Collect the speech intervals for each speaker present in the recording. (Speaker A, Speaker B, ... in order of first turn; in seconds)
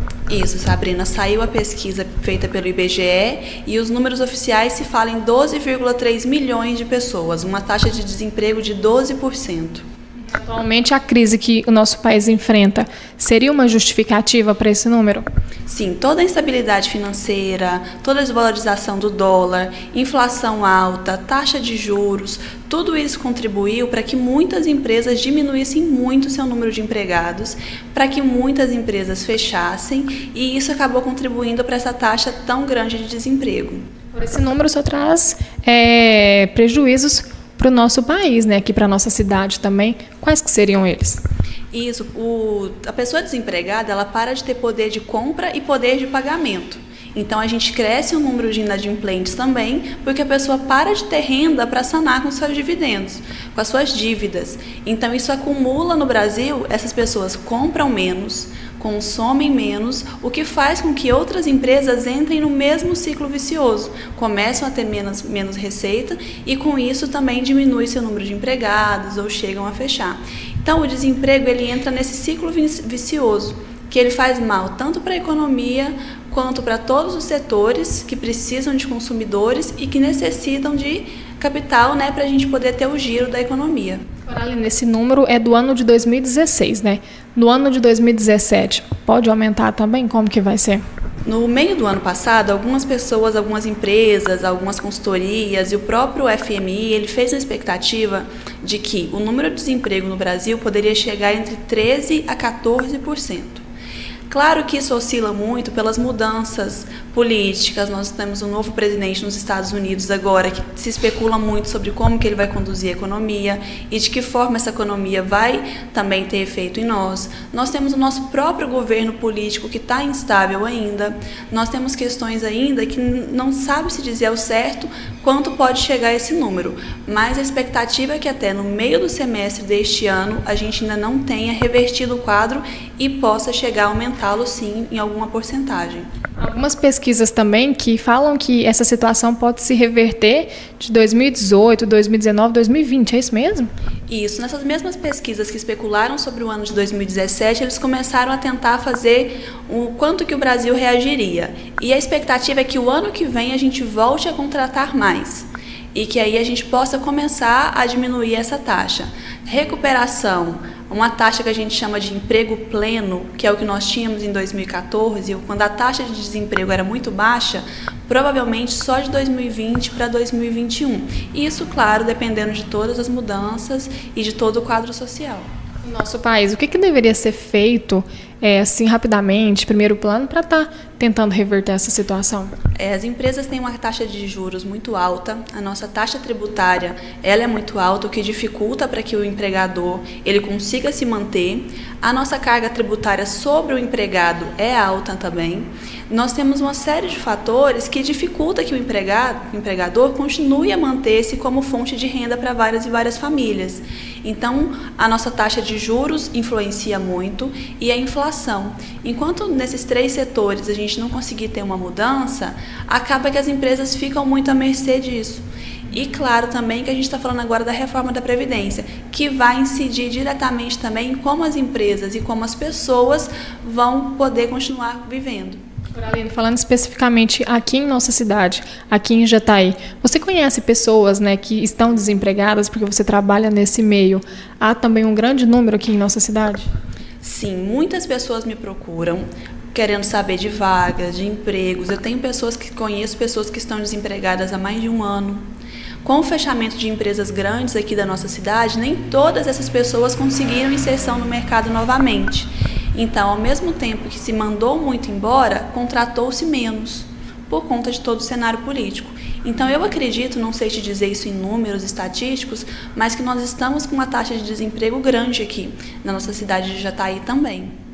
Speaker A: 0.3-9.8, 15.7-33.9, 41.7-84.0, 91.3-103.7, 104.3-136.1, 144.1-175.5, 182.8-225.6, 237.2-245.4, 246.0-267.8
Speaker B: 10.3-15.3, 34.1-41.2, 84.3-90.8, 136.4-143.7, 175.8-182.5, 225.9-236.7